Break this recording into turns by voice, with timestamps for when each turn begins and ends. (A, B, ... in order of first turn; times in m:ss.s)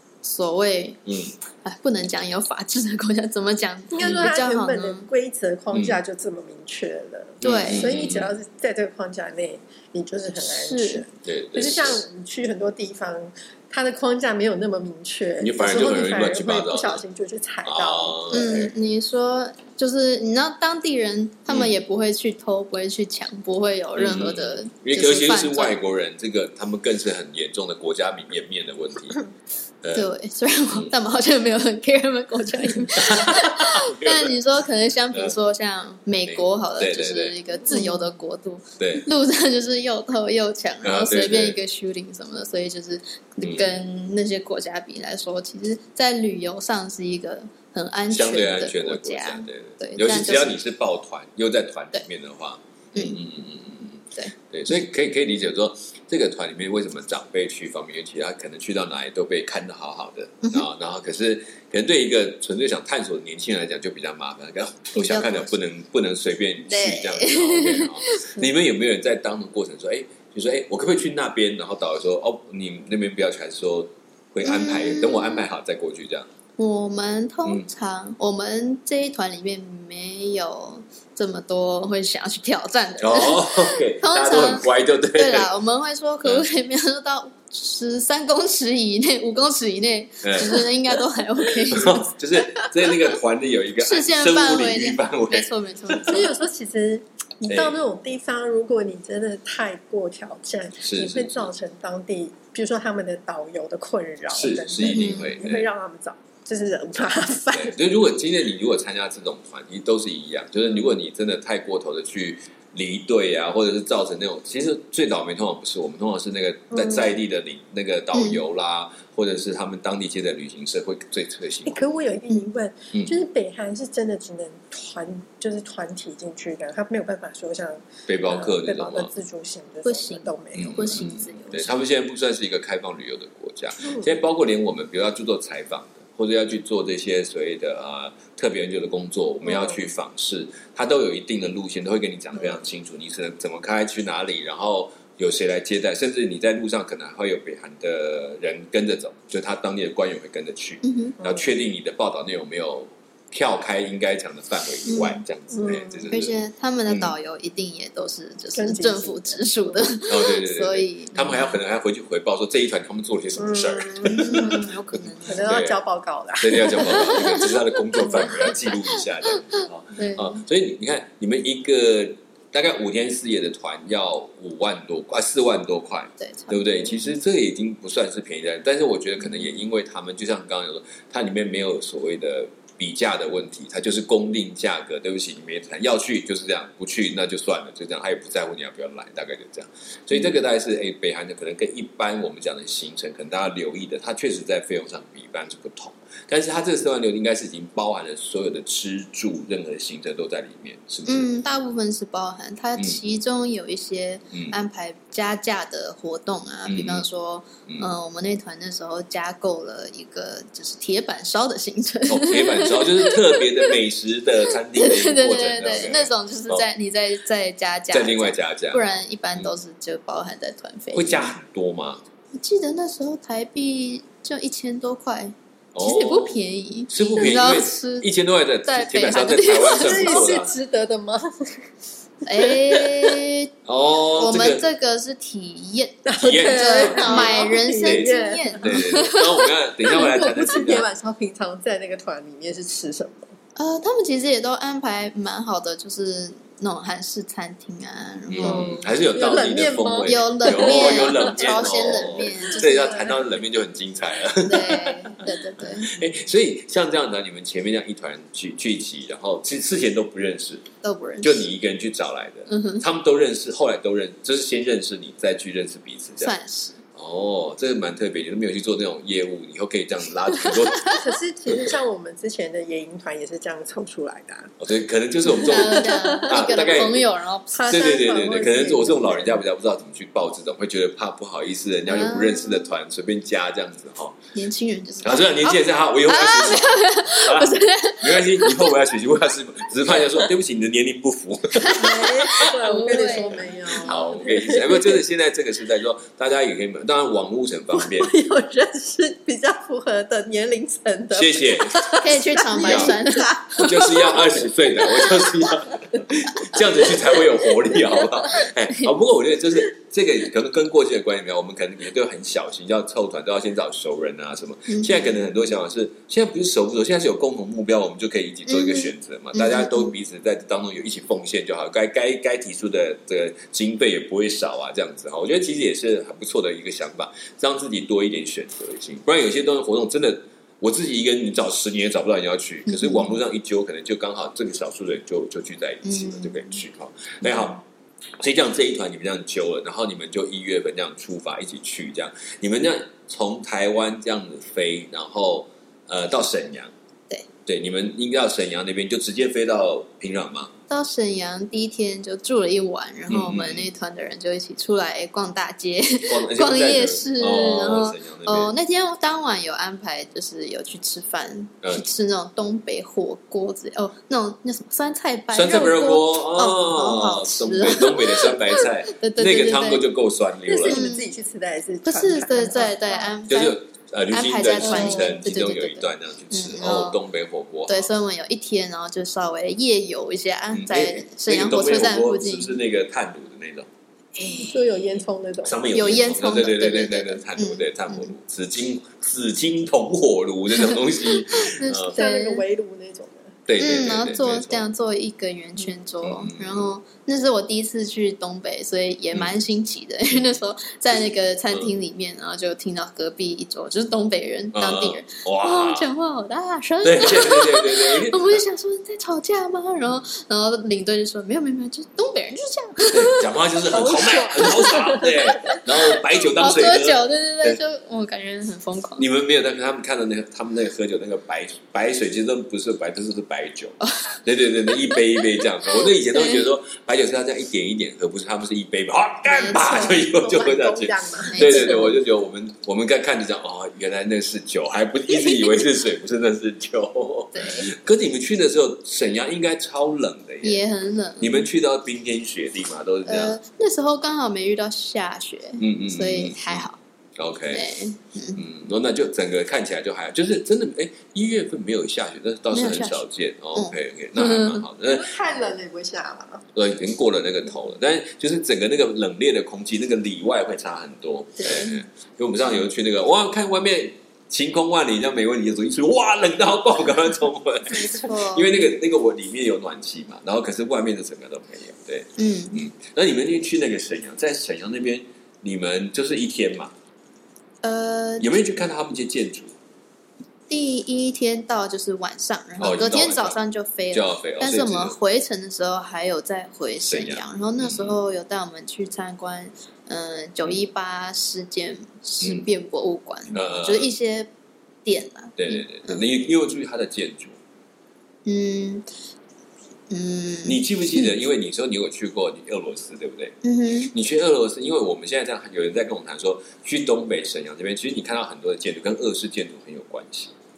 0:00.2-0:01.0 A
0:01.0-0:01.3 B
0:01.6-0:05.1 A
0:03.9-0:18.6 C
0:04.0-0:04.3 B
0:05.7-0:06.0 B
0:07.4-0:07.9 A
0:07.4-0:08.3 B
0:10.4-0:11.0 A
0:11.2-0:12.0 B
0:15.4-0:17.0 B
0:17.6-0:18.7 B
0:18.3-0:25.7 A
0:24.0-0:29.2 B
0:29.8-0:30.1 B
0:29.9-0:50.6 A
0:32.9-0:34.3 B
0:36.2-0:37.3 B
0:38.8-0:39.0 B
0:40.8-0:41.6 B
0:43.4-0:43.7 B
0:48.1-1:16.3 B
0:52.9-0:53.2 A
1:04.9-1:05.5 A
1:06.7-1:08.4 A
1:14.4-1:15.5 A
1:16.6-1:32.1 A
1:23.0-1:25.5 B
1:30.2-1:30.7 B
1:31.7-1:36.2 B
1:33.8-1:36.3 A
1:36.0-1:47.8 C
1:37.5-1:37.8 B
1:40.8-1:41.5 B
1:44.3-1:45.7 B
1:44.8-1:45.4 A
1:47.5-2:01.8 B
1:56.7-1:57.1 C
1:58.1-1:58.4 A
2:01.6-2:11.1 C
2:08.1-2:09.1 B
2:09.8-2:11.8 A
2:10.5-2:36.3 B
2:19.5-2:19.8 C
2:30.8-2:31.2 A
2:31.2-2:31.5 C
2:34.9-2:35.2 A
2:35.5-2:36.2 C
2:36.1-2:41.6 A
2:36.9-2:37.1 B
2:38.5-2:39.6 C
2:40.1-2:45.8 B
2:43.4-2:44.7 C
2:44.0-2:45.6 A
2:45.2-2:47.3 C
2:46.4-3:21.3 B
2:46.6-2:50.4 A
2:48.1-2:48.4 C
2:56.2-2:56.9 A
3:21.1-3:33.7 A
3:26.6-3:27.0 B
3:32.1-3:36.6 B
3:34.7-3:41.4 A
3:37.9-3:39.5 B
3:40.9-3:42.0 B
3:42.3-3:48.1 A
3:45.7-3:46.4 B
3:46.9-3:50.5 B
3:48.6-3:50.2 A
3:49.6-3:51.7 C
3:52.2-3:53.5 A
3:52.4-3:53.2 C
3:53.6-3:54.6 B
3:54.2-3:59.3 A
3:56.0-3:58.9 C
3:56.2-4:00.9 B
3:59.9-4:03.3 C
3:59.9-4:00.4 A
4:03.6-4:08.8 A
4:08.3-4:20.7 B
4:08.4-4:13.3 C
4:10.0-4:13.1 A
4:14.4-4:15.9 A
4:20.8-4:21.4 A
4:21.2-4:26.3 B
4:22.5-4:22.8 A
4:26.2-4:26.8 A
4:26.9-4:30.9 B
4:30.3-4:31.0 A
4:30.9-4:34.5 C
4:34.6-4:37.0 B
4:35.3-4:37.7 A
4:35.3-4:37.0 C
4:37.5-4:39.4 C
4:37.7-4:44.2 B
4:41.9-4:42.7 A
4:44.3-4:48.8 A
4:45.0-4:52.4 B
4:51.5-4:54.0 A
4:51.7-4:55.0 C
4:53.4-4:58.1 B
4:57.7-5:05.5 C
5:01.1-5:03.0 B
5:02.0-5:04.0 A
5:03.6-5:37.6 B
5:06.8-5:07.5 C
5:14.7-5:15.1 A
5:18.5-5:19.9 A
5:32.7-5:33.2 A
5:35.8-5:36.6 A
5:37.2-5:37.6 A
5:38.2-5:46.7 B
5:47.4-5:50.5 B
5:50.7-6:09.8 A
5:53.1-5:53.7 B
5:56.1-5:58.5 B
6:05.3-6:10.8 B
6:10.5-6:13.2 C
6:10.7-6:11.1 A
6:11.8-6:13.6 A
6:13.3-6:17.9 B
6:14.1-6:17.0 A
6:14.6-6:15.2 C
6:17.7-6:22.6 A
6:20.5-6:23.7 B
6:24.2-6:24.6 A
6:24.3-6:25.6 C
6:25.4-6:32.0 B
6:25.7-6:28.1 A
6:30.5-6:32.4 A
6:31.9-6:33.4 C
6:33.5-6:34.6 B
6:33.6-6:53.2 A
6:36.0-6:36.7 B
6:40.9-6:41.7 B
6:44.5-6:45.9 B
6:46.8-6:48.4 B
6:52.9-6:57.6 B
6:53.7-6:55.6 C
6:54.4-6:59.0 A
6:59.0-7:20.6 B
7:03.8-7:06.5 A
7:09.2-7:10.0 A
7:09.6-7:11.9 C
7:11.3-7:12.0 A
7:15.1-7:15.5 A
7:17.3-7:17.7 A
7:20.4-7:21.5 A
7:21.2-7:23.4 B
7:23.0-7:26.8 A
7:25.6-7:26.6 B
7:27.2-7:27.6 B
7:27.5-7:28.4 A
7:28.4-7:35.1 B
7:32.5-7:34.6 A
7:34.9-7:36.4 C
7:36.5-7:56.7 B
7:41.4-7:41.8 A
7:47.7-7:48.7 A
7:52.2-7:52.6 A
7:57.6-7:58.3 A
7:58.2-7:59.5 B
8:00.5-8:14.3 A
8:02.6-8:03.4 B
8:03.9-8:05.0 B
8:06.9-8:08.0 B
8:12.2-8:12.4 B
8:13.3-8:13.9 B
8:14.8-8:16.0 A
8:15.4-8:17.4 B
8:18.2-8:18.9 A
8:19.9-8:21.1 A
8:20.4-8:23.4 B
8:23.4-8:23.9 A
8:23.9-8:30.3 B